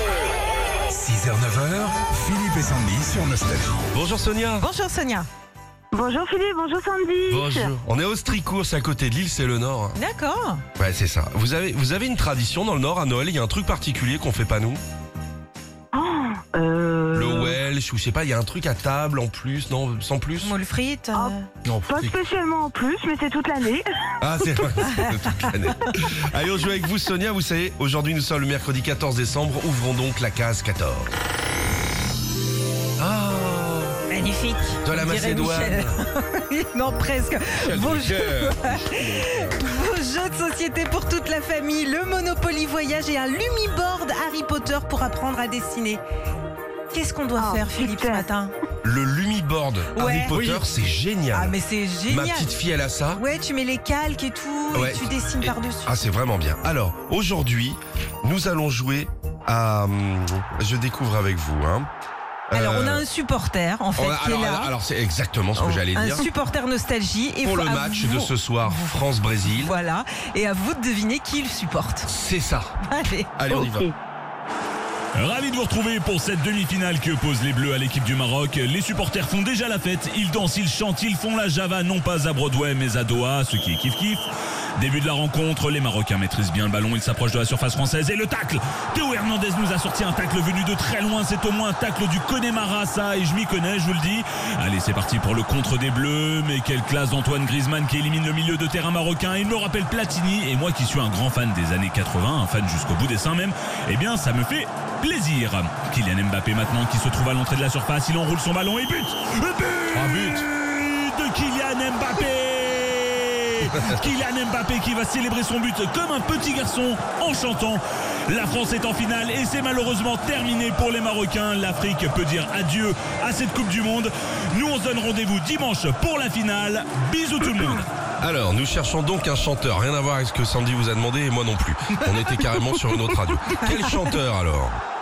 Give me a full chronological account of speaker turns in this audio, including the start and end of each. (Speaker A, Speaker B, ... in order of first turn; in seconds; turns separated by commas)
Speaker A: 0.9-3.8, Speaker B: 3.9-4.7, Speaker C: 4.6-5.3, Speaker D: 5.9-7.7, Speaker B: 7.3-10.0, Speaker C: 9.9-10.6, Speaker B: 10.8-14.8, Speaker D: 15.9-17.6, Speaker B: 17.1-20.5, Speaker C: 20.4-21.5, Speaker D: 21.1-23.9, Speaker B: 21.7-22.1, Speaker B: 24.2-31.1, Speaker B: 33.0-34.0, Speaker C: 34.1-46.0, Speaker B: 34.8-36.0, Speaker B: 37.7-38.5, Speaker A: 38.9-39.4, Speaker C: 46.9-48.5, Speaker D: 47.4-48.3, Speaker B: 48.8-51.5, Speaker C: 49.9-50.6, Speaker C: 51.3-52.5, Speaker B: 52.1-53.2, Speaker C: 53.2-55.9, Speaker B: 54.7-61.9, Speaker B: 62.5-63.0, Speaker C: 62.5-64.7, Speaker B: 64.0-66.3, Speaker C: 65.6-72.1, Speaker B: 67.4-69.7, Speaker B: 72.1-72.8, Speaker C: 72.9-73.3, Speaker B: 73.4-73.9, Speaker D: 73.5-74.0, Speaker E: 75.2-84.2, Speaker E: 84.8-127.9, Speaker B: 109.9-110.5, Speaker B: 128.2-134.8, Speaker C: 133.5-134.0